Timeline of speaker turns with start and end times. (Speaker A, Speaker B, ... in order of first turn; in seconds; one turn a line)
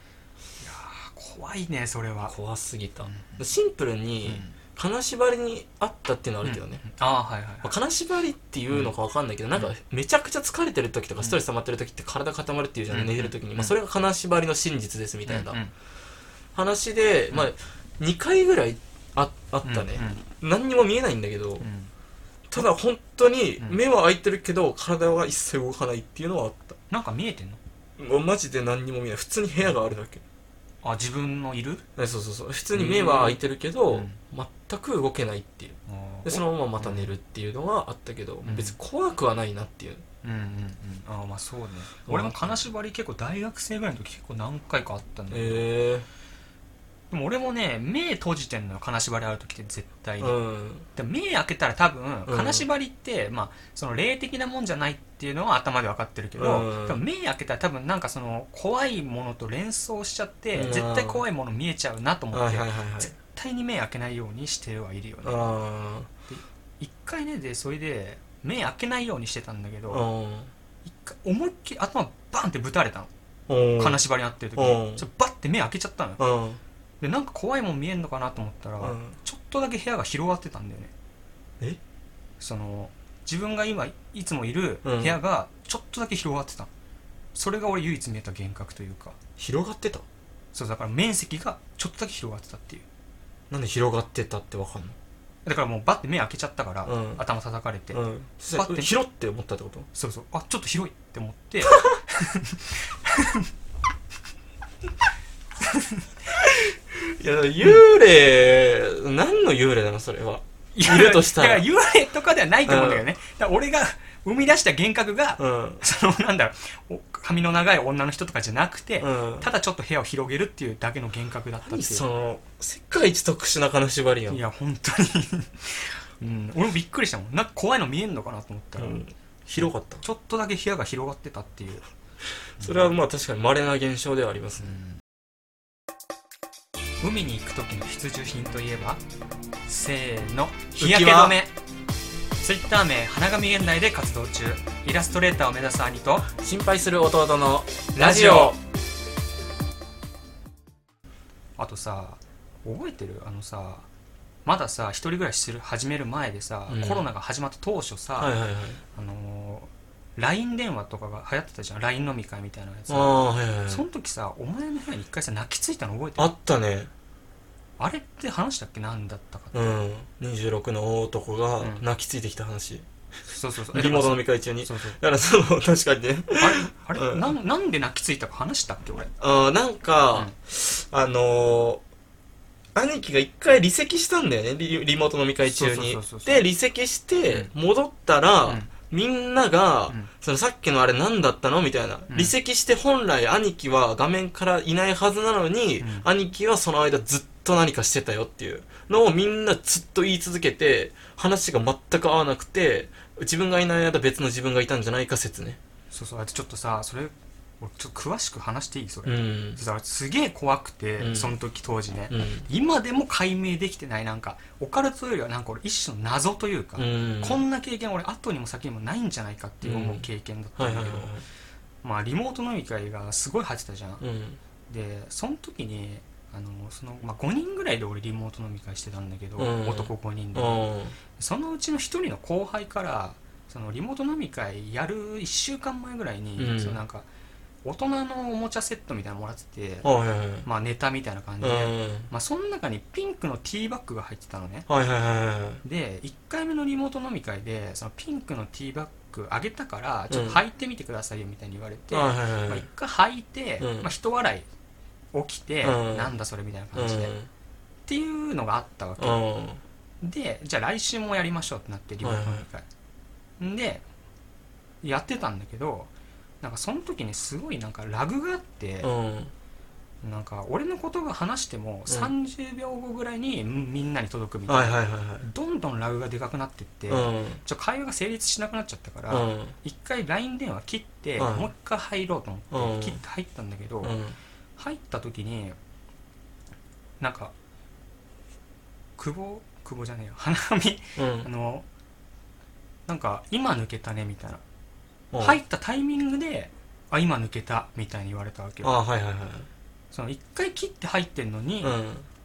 Speaker A: 0.6-2.3
Speaker B: 2.3-6.8
Speaker A: 3.0-3.4
Speaker A: 4.2-4.6
Speaker A: 6.4-7.7
Speaker B: 7.6-15.6
Speaker A: 12.9-13.7
Speaker A: 15.3-15.7
Speaker B: 16.5-21.7
Speaker A: 19.6-20.2
Speaker A: 21.6-21.9
Speaker B: 22.5-26.8
Speaker A: 26.9-27.6
Speaker B: 28.0-30.2
Speaker A: 30.8-31.8
Speaker B: 32.0-40.0
Speaker A: 32.7-33.4
Speaker A: 33.9-34.2
Speaker A: 35.9-37.1
Speaker A: 38.4-38.8
Speaker A: 40.2-45.7
Speaker B: 42.1-42.7
Speaker B: 45.3-46.1
Speaker A: 47.1-50.4
Speaker B: 50.2-50.9
Speaker A: 51.0-65.5
Speaker B: 52.3-52.6
Speaker B: 56.4-57.0
Speaker B: 60.5-61.2
Speaker B: 62.3-63.1
Speaker B: 65.2-66.1
Speaker A: 66.3-70.1
Speaker B: 69.9-70.5
Speaker A: 70.8-73.1
Speaker B: 73.5-74.0
Speaker A: 73.8-76.2
Speaker B: 74.6-75.0
Speaker B: 76.2-76.6
Speaker A: 77.0-80.9
Speaker B: 78.8-79.2
Speaker A: 82.4-86.7
Speaker B: 84.8-85.2
Speaker A: 87.3-89.2
Speaker B: 89.4-90.0
Speaker A: 90.5-92.8
Speaker B: 93.5-95.0
Speaker A: 95.5-98.0
Speaker B: 96.9-97.2
Speaker B: 97.9-99.9
Speaker A: 98.5-98.9
Speaker A: 99.9-103.5
Speaker A: 105.6-106.1
Speaker B: 106.4-111.7
Speaker A: 110.7-122.0
Speaker B: 112.7-113.0
Speaker B: 115.4-115.8
Speaker B: 119.0-119.5
Speaker B: 121.7-124.4
Speaker A: 124.3-131.8
Speaker B: 128.8-130.0
Speaker A: 132.6-133.0
Speaker B: 132.6-134.7
Speaker A: 134.6-135.0
Speaker A: 137.0-139.0
Speaker A: 139.7-141.5
Speaker B: 140.8-141.4
Speaker A: 142.4-146.3
Speaker B: 146.4-148.6
Speaker A: 147.9-148.6
Speaker A: 151.6-153.9
Speaker A: 154.4-158.3
Speaker B: 156.7-157.1
Speaker B: 158.2-158.8
Speaker A: 158.9-166.3
Speaker B: 162.9-163.8
Speaker B: 166.2-166.9
Speaker A: 167.8-169.8
Speaker B: 169.5-172.9
Speaker A: 173.3-175.0
Speaker B: 173.7-177.3
Speaker A: 176.4-179.1
Speaker B: 179.2-181.8
Speaker B: 182.8-205.6
Speaker A: 185.4-186.4
Speaker A: 188.4-188.7
Speaker A: 192.1-192.3
Speaker A: 195.8-196.1
Speaker A: 205.9-221.1
Speaker B: 209.1-209.6
Speaker B: 211.0-211.3
Speaker B: 212.1-212.5
Speaker B: 216.8-217.4
Speaker B: 219.6-221.2
Speaker A: 221.8-224.0
Speaker B: 224.0-224.4
Speaker A: 224.7-230.6
Speaker B: 229.4-231.0
Speaker A: 231.2-237.1
Speaker B: 236.4-236.8
Speaker A: 237.6-239.9
Speaker B: 239.8-240.5
Speaker A: 240.4-244.7
Speaker B: 241.4-242.1
Speaker B: 244.7-245.6
Speaker A: 245.6-254.5
Speaker B: 250.1-250.4
Speaker B: 251.9-252.7
Speaker B: 253.6-253.9
Speaker A: 255.1-257.1
Speaker B: 255.6-256.1
Speaker B: 256.8-257.3
Speaker A: 257.9-259.2
Speaker B: 259.0-259.6
Speaker A: 260.0-262.7
Speaker B: 262.0-262.5
Speaker A: 263.4-263.9
Speaker A: 264.8-265.9
Speaker A: 266.4-268.9
Speaker B: 268.8-269.3
Speaker A: 270.0-284.0
Speaker B: 271.9-272.1
Speaker B: 274.5-275.3
Speaker B: 276.9-277.4
Speaker B: 279.1-279.6
Speaker B: 281.2-281.5
Speaker B: 282.5-283.0
Speaker B: 283.8-284.2
Speaker A: 284.6-285.6
Speaker A: 287.0-287.3
Speaker A: 289.0-291.6
Speaker B: 291.0-291.3
Speaker A: 292.9-294.4
Speaker B: 295.1-295.4
Speaker A: 295.2-298.7
Speaker B: 298.6-299.5
Speaker A: 299.9-301.8
Speaker B: 301.6-302.1